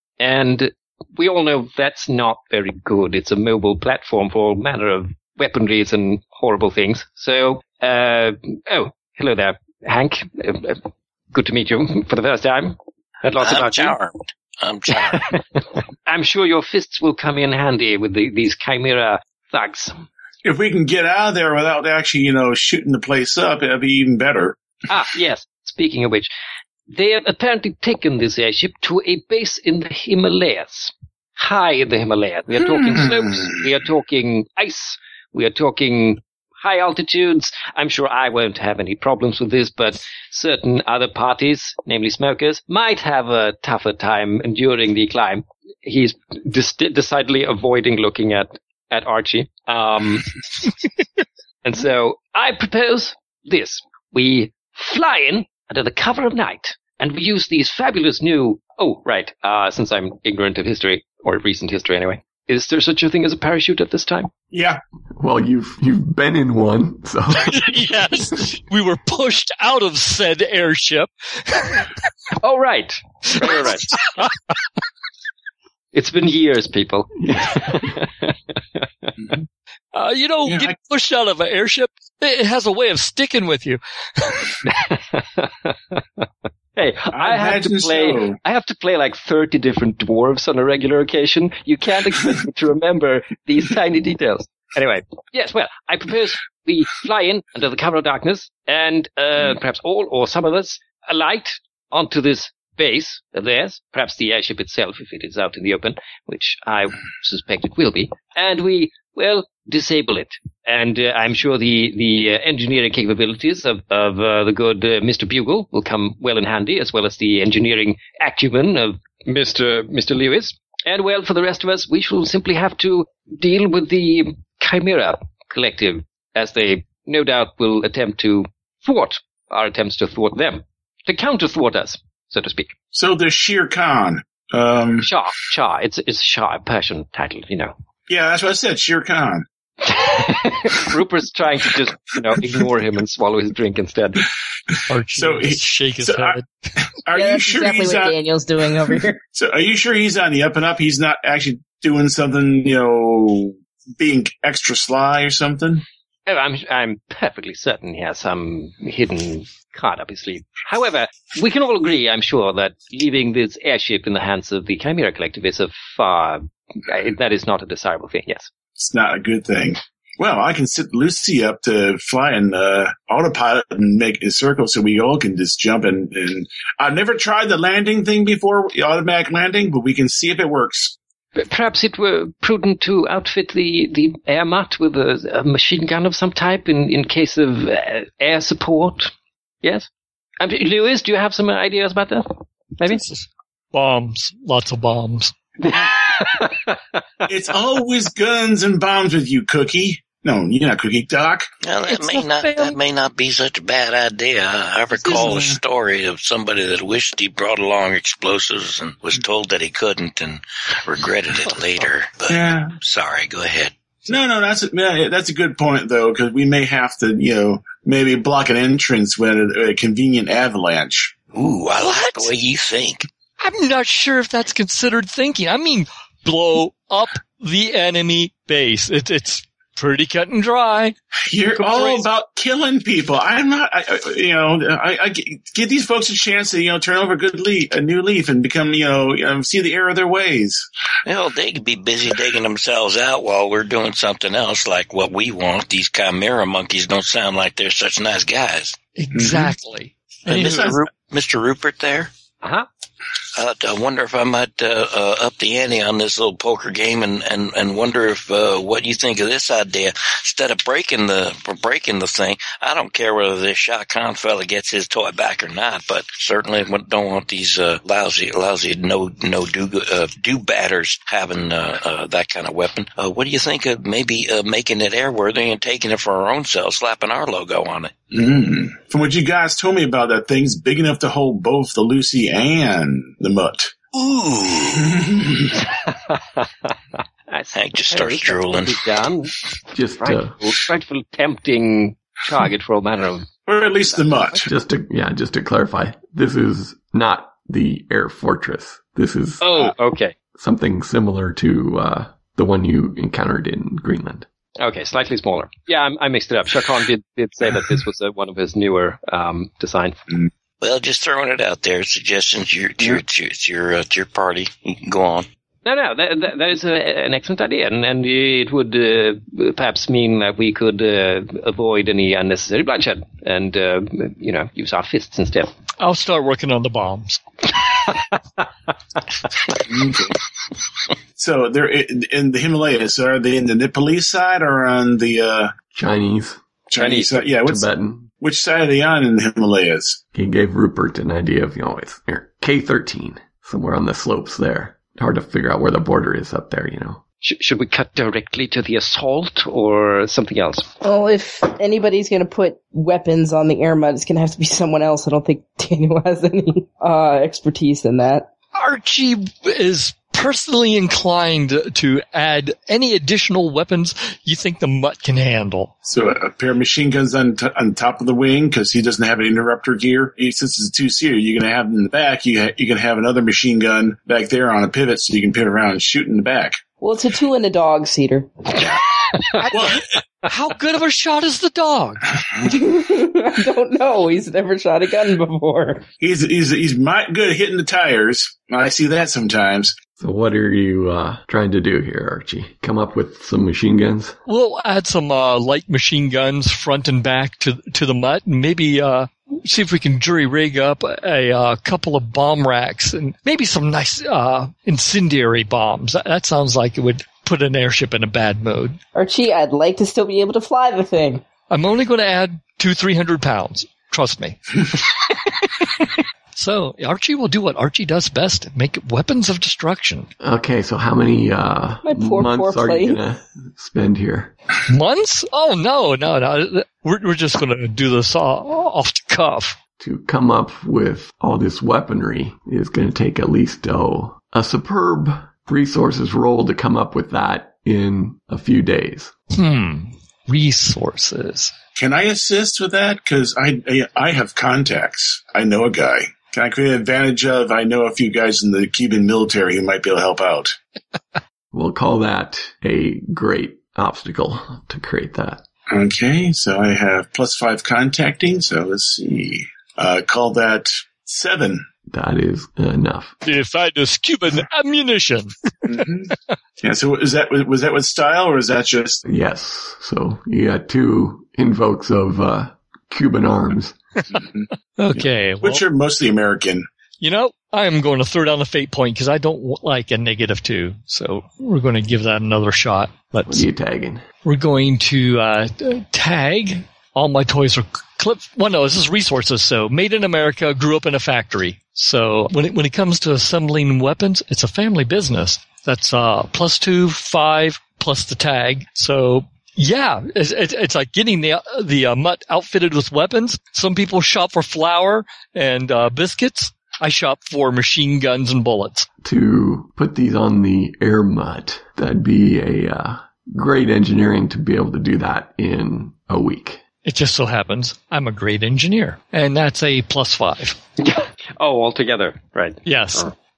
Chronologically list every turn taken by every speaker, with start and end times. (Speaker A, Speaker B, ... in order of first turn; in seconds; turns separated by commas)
Speaker A: 0.2-13.9, Speaker B: 13.4-15.4, Speaker A: 14.9-15.4, Speaker A: 16.1-20.1, Speaker C: 20.4-24.6, Speaker A: 24.9-26.3, Speaker A: 26.9-50.3, Speaker C: 32.7-33.6, Speaker A: 51.6-64.3, Speaker C: 64.5-64.8, Speaker D: 65.2-67.8, Speaker E: 67.4-71.9, Speaker A: 72.4-74.0, Speaker E: 73.3-74.3, Speaker A: 75.9-79.1, Speaker E: 79.9-84.6, Speaker C: 80.5-80.8, Speaker A: 84.7-86.2, Speaker A: 86.8-132.7, Speaker C: 87.1-88.4, Speaker C: 132.9-135.1, Speaker A: 135.0-137.8, Speaker C: 138.1-139.5, Speaker A: 139.8-144.3, Speaker C: 144.7-146.4, Speaker E: 144.9-146.7, Speaker C: 147.0-148.2, Speaker F: 147.1-149.2, Speaker C: 149.3-155.8, Speaker A: 156.3-168.5, Speaker C: 168.8-181.0, Speaker A: 181.4-189.1, Speaker A: 189.6-189.9, Speaker A: 190.4-193.0, Speaker E: 192.9-195.3, Speaker A: 195.6-197.3, Speaker C: 197.3-201.5, Speaker B: 201.6-213.7, Speaker E: 201.9-202.8, Speaker C: 205.0-205.6, Speaker C: 212.3-212.8, Speaker C: 214.1-221.1, Speaker B: 221.3-223.1, Speaker E: 221.8-222.3, Speaker E: 223.4-231.0, Speaker C: 231.3-240.7, Speaker E: 231.6-232.1, Speaker B: 241.1-248.8, Speaker E: 249.0-250.8, Speaker C: 249.1-249.5, Speaker B: 250.3-252.1, Speaker A: 252.4-252.7, Speaker B: 253.3-277.9, Speaker C: 278.1-283.8, Speaker B: 283.9-285.1, Speaker C: 284.8-285.6, Speaker A: 285.5-289.4, Speaker B: 287.5-288.8, Speaker D: 289.7-290.4, Speaker A: 290.0-294.4, Speaker C: 293.5-294.5, Speaker D: 294.4-299.7, Speaker A: 299.4-300.1, Speaker D: 300.4-304.3, Speaker A: 304.6-310.1, Speaker B: 310.6-315.3, Speaker A: 315.6-325.5, Speaker E: 325.8-327.2, Speaker C: 329.7-330.1, Speaker C: 331.2-335.5, Speaker D: 335.7-336.4, Speaker C: 336.7-337.7, Speaker A: 336.8-337.2, Speaker D: 337.4-338.1, Speaker C: 338.2-340.0, Speaker D: 340.1-347.0, Speaker A: 347.2-350.7, Speaker F: 350.8-358.3, Speaker E: 358.6-365.7, Speaker C: 365.9-376.6, Speaker F: 376.8-378.5, Speaker E: 379.4-382.1, Speaker C: 379.5-379.9, Speaker F: 382.4-385.9, Speaker C: 386.0-389.8, Speaker D: 390.0-394.2, Speaker E: 394.3-408.8, Speaker F: 408.9-411.2, Speaker E: 411.5-420.1, Speaker D: 420.2-424.3, Speaker F: 421.9-423.0, Speaker E: 424.7-429.6, Speaker D: 429.8-439.1, Speaker E: 439.3-441.5, Speaker C: 441.8-450.6, Speaker D: 451.5-455.4, Speaker C: 455.7-461.7, Speaker D: 461.9-463.1, Speaker E: 463.2-466.4, Speaker C: 465.7-469.0, Speaker D: 469.0-473.8, Speaker C: 474.2-476.7, Speaker E: 474.8-475.6, Speaker E: 477.0-483.4, Speaker D: 483.3-484.1, Speaker E: 484.2-508.9, Speaker D: 509.0-516.6, Speaker E: 516.9-520.6, Speaker A: 520.8-522.6, Speaker E: 522.6-523.1